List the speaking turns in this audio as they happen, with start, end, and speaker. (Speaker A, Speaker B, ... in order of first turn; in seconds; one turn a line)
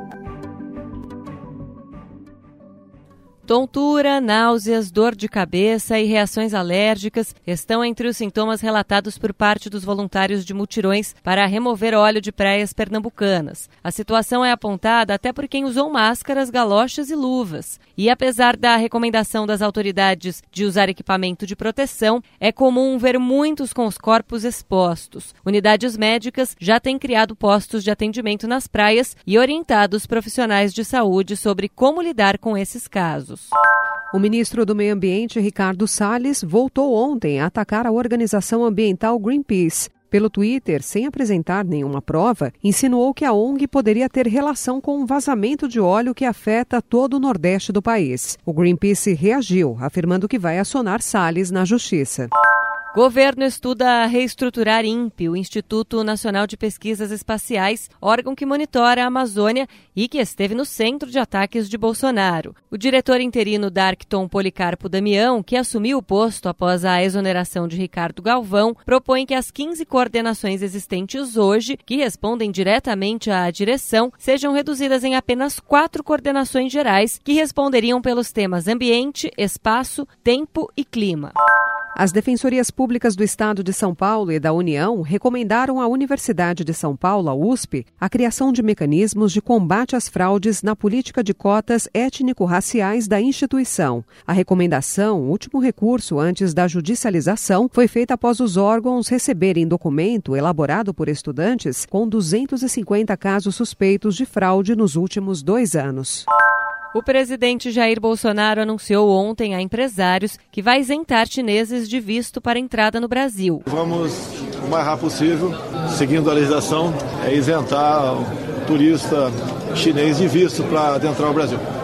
Speaker A: 3.5-33.5
Speaker B: 34.1-52.3
Speaker A: 52.9-81.3
Speaker B: 82.0-106.3
Speaker A: 106.9-113.7
Speaker C: 113.7-121.6